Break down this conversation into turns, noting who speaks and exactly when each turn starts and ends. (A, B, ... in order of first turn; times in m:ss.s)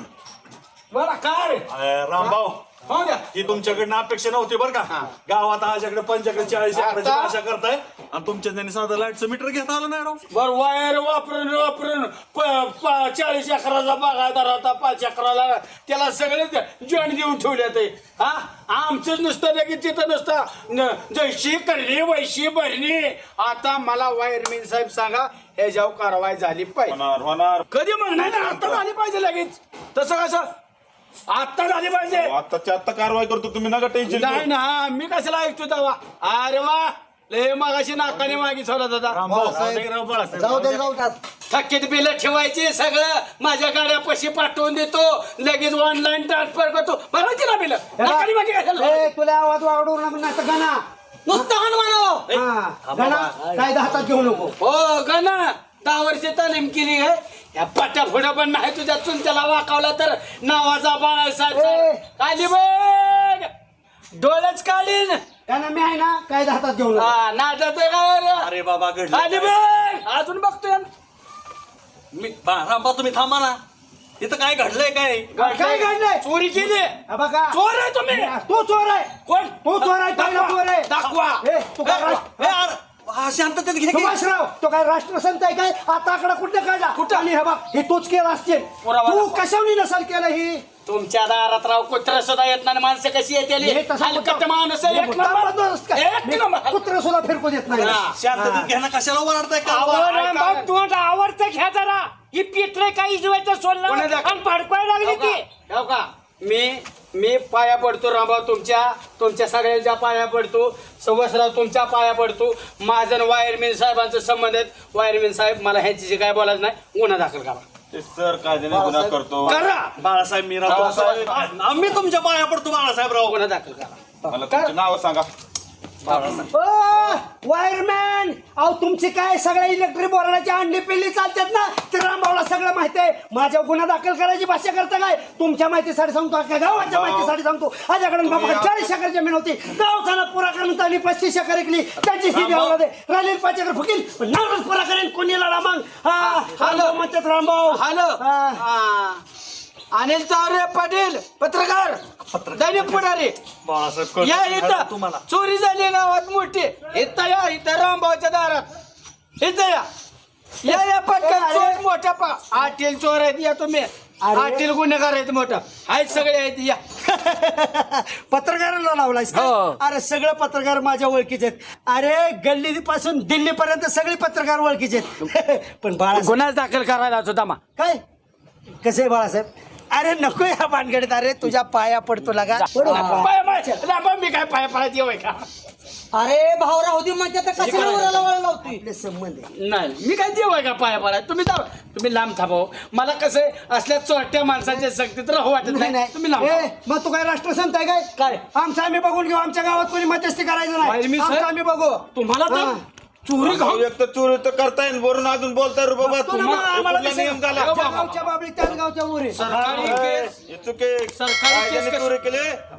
0:00.9-0:01.7 A
0:01.7-0:02.6 B
0:02.9-0:03.2 A
0:03.3-0:10.2 B
0:06.7-0:07.4 A
0:10.3-0:27.0 A
0:26.9-0:28.8 C
0:27.7-0:30.5 A
0:31.3-0:32.3 A
0:32.1-0:34.5 C
0:34.1-0:39.2 A
0:39.1-0:40.9 B
0:40.3-0:40.7 D
0:40.4-0:40.9 E
0:41.5-0:49.0 A
0:48.0-0:51.5 E
0:51.3-0:53.7 B
0:52.3-0:54.5 E
0:54.6-1:03.5 A
1:01.5-1:02.0 E
1:04.2-1:05.2 A
1:05.5-1:07.1 E
1:07.0-1:08.5 A
1:08.4-1:09.5 B
1:09.1-1:10.9 A
1:12.1-1:13.6 B
1:14.2-1:15.3 B
1:15.4-1:16.2 E
1:15.4-1:17.0 A
1:17.1-1:19.1 E
1:17.5-1:18.3 A
1:19.3-1:21.4 A
1:19.6-1:22.6 E
1:21.8-1:24.2 B
1:23.9-1:30.6 E
1:27.0-1:27.3 A
1:28.8-1:29.4 A
1:30.8-1:36.8 A
1:33.6-1:38.7 E
1:37.7-1:38.2 A
1:37.8-1:40.1 B
1:39.7-1:45.4 F
1:39.8-1:40.7 A
1:43.9-1:44.4 A
1:45.0-1:57.6 A
1:57.9-1:59.6 C
1:58.7-1:59.1 E
1:59.4-1:59.9 A
2:00.0-2:03.4 B
2:00.6-2:01.5 C
2:00.6-2:01.2 A
2:03.2-2:04.7 A
2:04.3-2:05.3 C
2:06.1-2:06.5 B
2:06.1-2:06.4 A
2:06.5-2:28.6 E
2:16.8-2:17.3 C
2:18.2-2:18.9 C
2:22.3-2:22.8 B
2:26.2-2:27.0 A
2:27.7-2:29.2 A
2:29.9-2:32.0 A
2:32.3-2:33.0 B
2:32.5-2:33.4 A
2:33.6-2:35.2 B
2:34.2-2:38.7 A
2:39.4-2:39.9 A
2:40.6-2:46.8 A
2:40.7-2:41.8 E
2:44.2-2:44.7 E
2:47.0-2:56.4 E
2:49.3-2:49.8 A
2:56.1-2:57.6 A
2:57.8-2:58.0 E
2:58.8-3:03.8 E
3:02.6-3:05.4 A
3:06.1-3:08.8 D
3:07.5-3:08.7 B
3:07.6-3:09.5 E
3:07.7-3:08.0 A
3:09.6-3:16.7 A
3:15.6-3:22.8 E
3:20.8-3:21.5 A
3:22.1-3:23.9 A
3:23.4-3:27.7 C
3:26.0-3:29.7 E
3:26.2-3:26.7 A
3:27.5-3:28.2 A
3:29.3-3:30.4 A
3:29.4-3:30.0 B
3:29.5-3:32.6 C
3:31.1-3:32.1 A